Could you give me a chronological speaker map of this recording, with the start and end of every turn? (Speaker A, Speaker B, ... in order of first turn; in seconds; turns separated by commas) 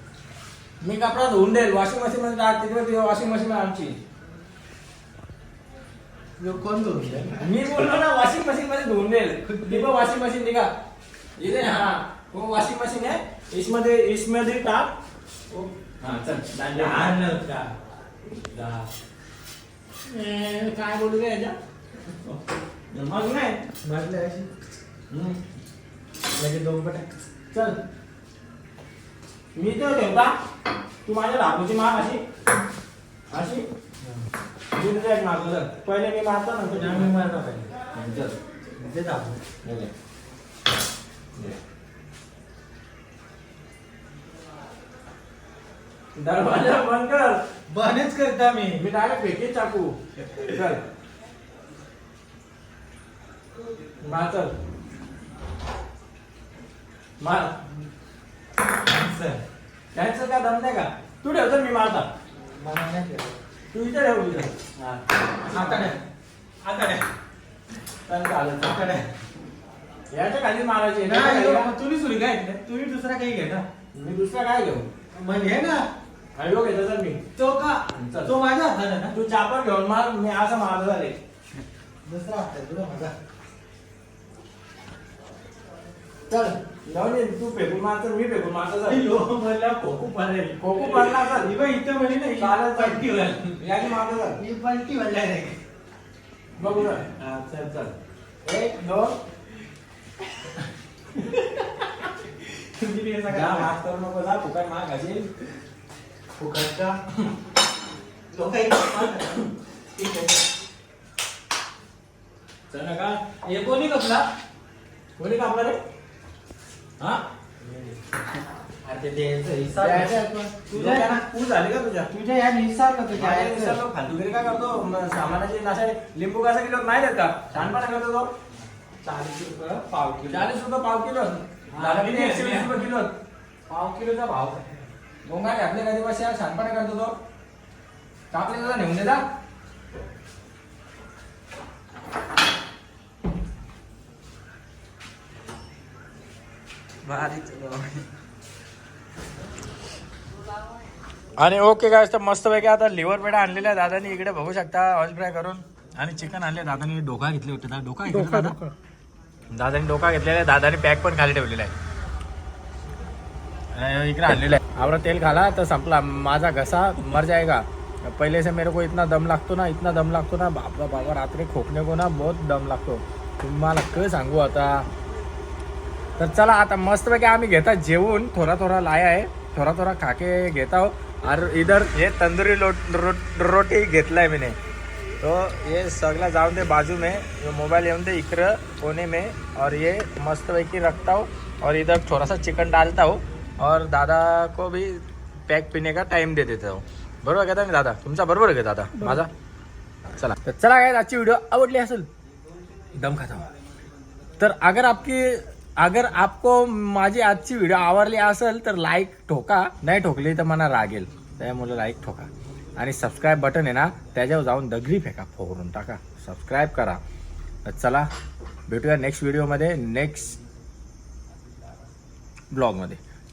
Speaker A: 0.8-4.0, Speaker B: 6.4-7.5, Speaker A: 7.4-10.7, Speaker B: 9.6-9.9, Speaker A: 11.4-14.9, Speaker A: 15.5-17.7, Speaker B: 16.7-17.3, Speaker A: 18.5-18.9, Speaker A: 20.1-21.6, Speaker A: 22.9-23.6, Speaker B: 23.8-24.5, Speaker A: 25.1-25.4, Speaker A: 26.4-26.9, Speaker B: 26.4-27.0, Speaker A: 27.5-27.8, Speaker A: 29.5-30.4, Speaker A: 31.1-32.2, Speaker A: 33.3-33.7, Speaker A: 34.7-37.1, Speaker B: 36.7-37.7, Speaker A: 37.9-38.4, Speaker B: 38.8-39.4, Speaker A: 39.6-39.9, Speaker A: 46.1-47.4, Speaker B: 47.7-48.8, Speaker A: 48.8-50.8, Speaker A: 54.0-54.5, Speaker A: 57.2-57.5, Speaker B: 58.9-59.4, Speaker A: 59.9-62.1, Speaker B: 62.5-63.4, Speaker A: 63.7-65.9, Speaker B: 65.5-66.0, Speaker B: 66.6-67.0, Speaker A: 68.0-68.9, Speaker B: 68.6-69.1, Speaker A: 70.1-71.7, Speaker B: 71.0-73.6, Speaker A: 73.9-74.9, Speaker B: 75.1-75.8, Speaker A: 76.3-77.2, Speaker B: 77.3-79.1, Speaker A: 77.9-78.3, Speaker A: 79.1-81.2, Speaker B: 82.0-83.1, Speaker A: 86.3-89.0, Speaker B: 88.8-93.7, Speaker A: 90.6-91.5, Speaker A: 92.4-93.0, Speaker A: 93.6-94.4, Speaker B: 94.4-95.6, Speaker A: 96.6-97.8, Speaker B: 97.1-97.9, Speaker A: 98.4-99.2, Speaker B: 102.7-103.7, Speaker A: 103.3-105.3, Speaker B: 106.4-107.0, Speaker B: 108.3-109.5, Speaker A: 112.7-113.8, Speaker B: 113.4-114.1, Speaker A: 115.2-115.8, Speaker A: 117.0-117.9, Speaker B: 118.8-121.2, Speaker A: 119.8-120.2, Speaker A: 120.7-122.1, Speaker B: 122.1-123.8, Speaker A: 123.1-128.3, Speaker B: 129.0-130.5, Speaker A: 130.2-133.1, Speaker B: 131.7-132.7, Speaker B: 133.7-134.8, Speaker A: 135.2-137.1, Speaker A: 138.3-139.2, Speaker A: 147.1-148.0, Speaker A: 151.4-158.6, Speaker B: 158.1-158.7, Speaker A: 159.5-161.7, Speaker A: 163.7-174.8, Speaker A: 176.2-184.6, Speaker A: 185.2-199.3, Speaker A: 200.2-202.1, Speaker A: 203.0-203.4, Speaker A: 204.4-217.0, Speaker A: 217.6-218.1, Speaker A: 218.7-220.4, Speaker A: 222.5-223.0